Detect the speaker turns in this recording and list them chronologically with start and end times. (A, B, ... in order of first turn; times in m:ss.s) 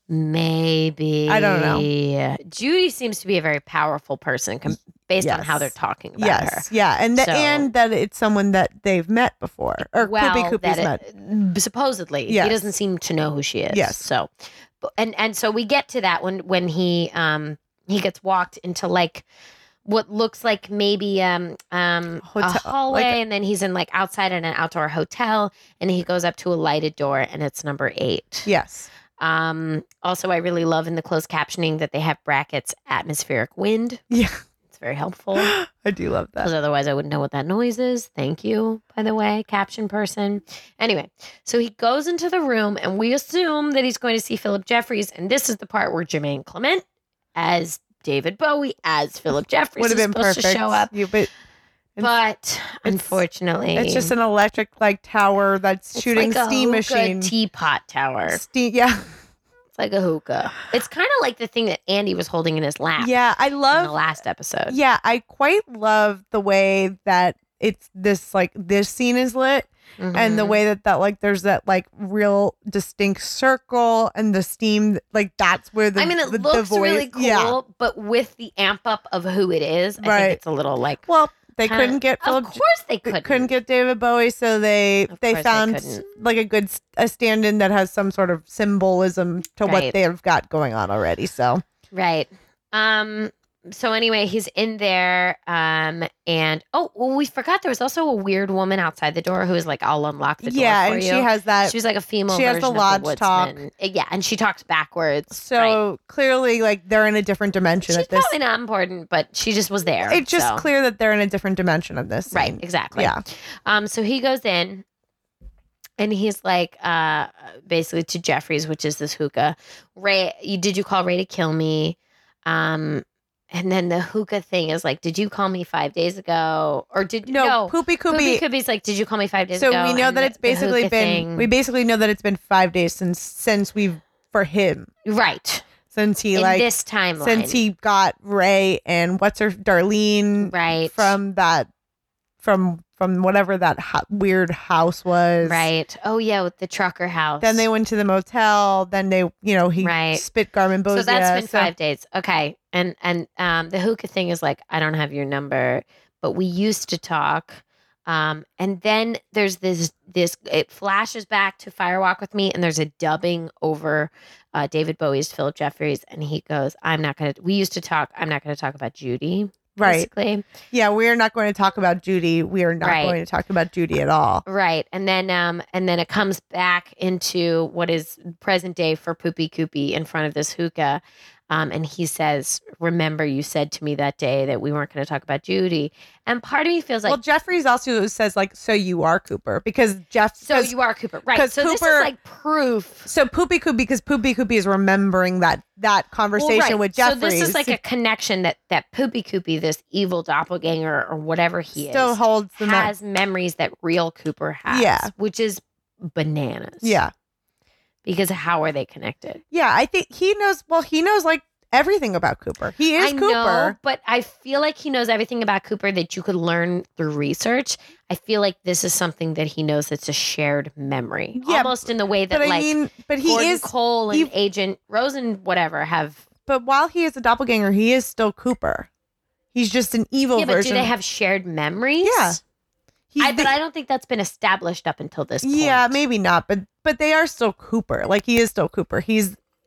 0:00.1-0:07.7 A
0:01.3-0:01.8 B
0:05.2-0:11.0 B
0:09.9-0:19.2 A
0:12.3-0:12.7 B
0:13.7-0:14.0 B
0:19.8-0:28.5 A
0:22.2-0:23.2 B
0:28.5-0:28.9 B
0:29.2-0:34.0 A
0:34.1-0:34.4 B
0:34.7-0:35.5 A
0:35.4-0:36.5 B
0:36.4-0:46.8 A
0:47.4-0:50.9 A
0:49.8-0:51.3 B
0:52.0-0:54.1 A
0:52.8-0:53.2 B
0:53.7-0:57.3 B
0:55.9-0:58.4 A
0:58.3-0:59.1 B
0:59.7-1:03.1 A
1:03.0-1:03.9 B
1:03.7-1:04.8 A
1:04.7-1:17.6 B
1:10.0-1:10.6 A
1:16.0-1:21.0 A
1:20.0-1:20.4 B
1:21.0-1:31.6 B
1:21.6-1:23.5 A
1:25.1-1:26.0 A
1:29.6-1:30.0 A
1:31.9-1:45.8 A
1:40.4-1:41.8 B
1:42.3-1:43.6 B
1:45.3-1:48.3 B
1:47.8-1:50.6 A
1:50.1-1:53.2 B
1:52.3-1:54.8 A
1:56.0-2:11.5 A
2:07.2-2:08.4 B
2:09.5-2:14.9 B
2:15.0-2:15.6 A
2:15.9-2:16.7 B
2:16.3-2:17.6 A
2:17.2-2:21.7 B
2:20.4-2:21.2 A
2:22.4-2:25.6 B
2:25.4-2:27.6 A
2:27.4-2:31.7 B
2:29.8-2:30.2 A
2:30.9-2:50.4 A
2:49.8-2:50.1 B
2:50.7-2:54.4 B
2:52.8-2:53.2 A
2:54.4-3:07.2 A
3:07.0-3:10.7 B
3:10.4-3:13.1 A
3:11.3-3:12.1 B
3:13.0-3:17.8 B
3:16.4-3:27.0 A
3:21.9-3:22.9 B
3:24.7-3:25.1 B
3:26.8-3:27.1 B
3:28.0-3:29.4 A
3:29.5-3:33.8 B
3:33.0-3:46.2 A
3:41.4-3:44.3 B
3:46.5-3:48.9 B
3:49.5-3:50.9 B
3:50.3-3:52.4 A
3:52.0-3:52.4 B
3:53.1-3:53.5 B
3:53.2-3:56.0 A
3:55.4-3:59.4 B